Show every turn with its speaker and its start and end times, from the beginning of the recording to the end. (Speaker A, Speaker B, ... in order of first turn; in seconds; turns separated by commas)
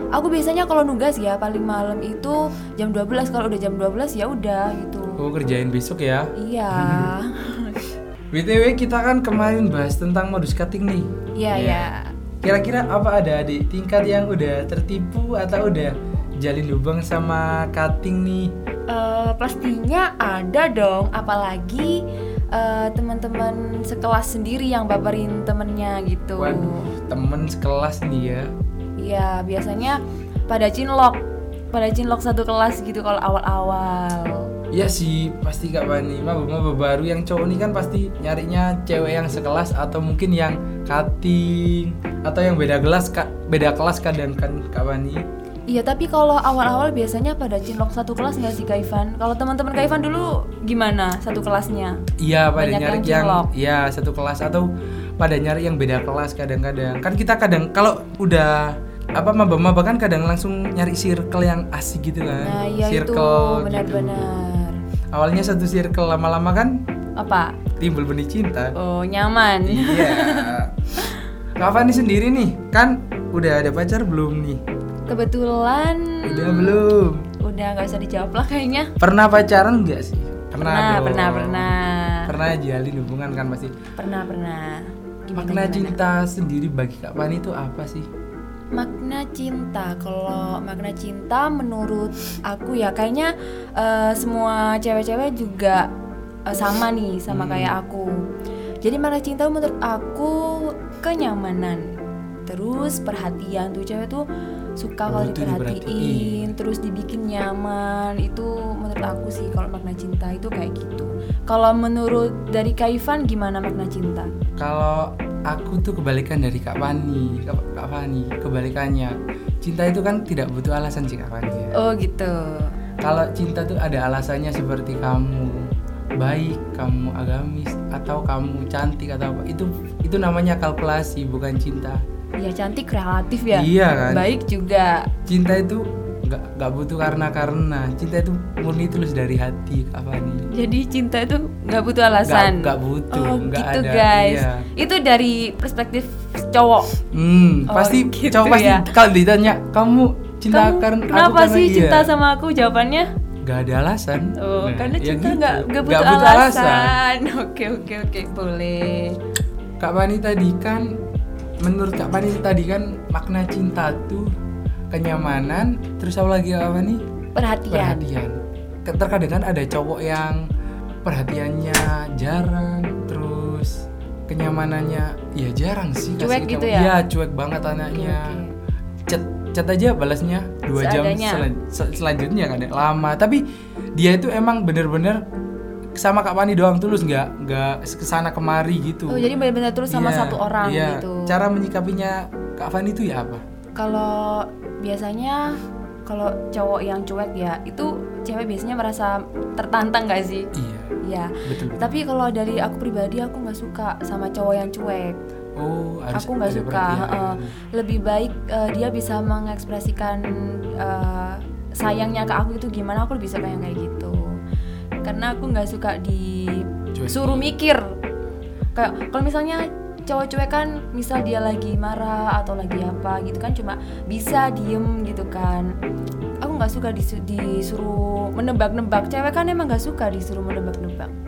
Speaker A: 0.1-5.2, Speaker B: 5.2-7.1, Speaker A: 6.3-7.8, Speaker B: 8.3-11.9, Speaker A: 11.3-12.1, Speaker B: 12.4-18.5, Speaker A: 18.9-26.9, Speaker B: 26.4-28.5, Speaker A: 29.0-34.5, Speaker B: 34.7-45.2, Speaker A: 45.7-52.0, Speaker B: 52.2-64.2, Speaker A: 52.6-53.5, Speaker A: 62.4-64.8, Speaker B: 65.1-66.8, Speaker A: 67.2-67.6, Speaker B: 67.8-68.7, Speaker A: 68.8-70.5, Speaker B: 69.7-70.8, Speaker B: 71.6-74.6, Speaker A: 75.1-76.8, Speaker B: 76.2-77.2, Speaker A: 77.4-78.9, Speaker B: 79.0-81.7, Speaker A: 80.6-82.2, Speaker B: 82.3-83.7, Speaker A: 84.0-86.0, Speaker B: 85.3-88.1, Speaker A: 88.7-95.8, Speaker A: 96.5-98.1, Speaker B: 97.3-97.8, Speaker A: 98.8-101.8, Speaker A: 102.5-104.2, Speaker A: 104.8-114.3, Speaker B: 105.1-106.5, Speaker B: 114.6-121.7, Speaker A: 121.7-122.7, Speaker B: 123.0-132.0, Speaker A: 132.4-135.1, Speaker B: 133.5-134.2, Speaker B: 135.3-140.5, Speaker A: 140.5-146.9, Speaker B: 142.2-144.6, Speaker B: 147.1-152.1, Speaker A: 147.7-148.9, Speaker A: 150.5-153.1, Speaker B: 153.4-157.0, Speaker A: 154.4-159.2, Speaker B: 159.8-160.9, Speaker B: 161.6-164.3, Speaker B: 164.9-167.0, Speaker A: 167.3-168.1, Speaker B: 167.7-170.4, Speaker B: 171.0-178.4, Speaker A: 176.2-176.9, Speaker A: 177.9-178.5, Speaker B: 179.1-183.4, Speaker A: 180.7-181.5, Speaker B: 183.9-185.2, Speaker B: 185.9-189.3, Speaker A: 189.1-191.3, Speaker B: 189.9-193.4, Speaker A: 193.8-200.5, Speaker B: 200.5-201.9, Speaker A: 201.0-205.2, Speaker B: 205.6-207.5, Speaker A: 206.1-210.2, Speaker A: 210.7-214.4, Speaker A: 215.0-217.9, Speaker B: 216.9-217.6, Speaker A: 218.7-225.7, Speaker A: 226.4-231.1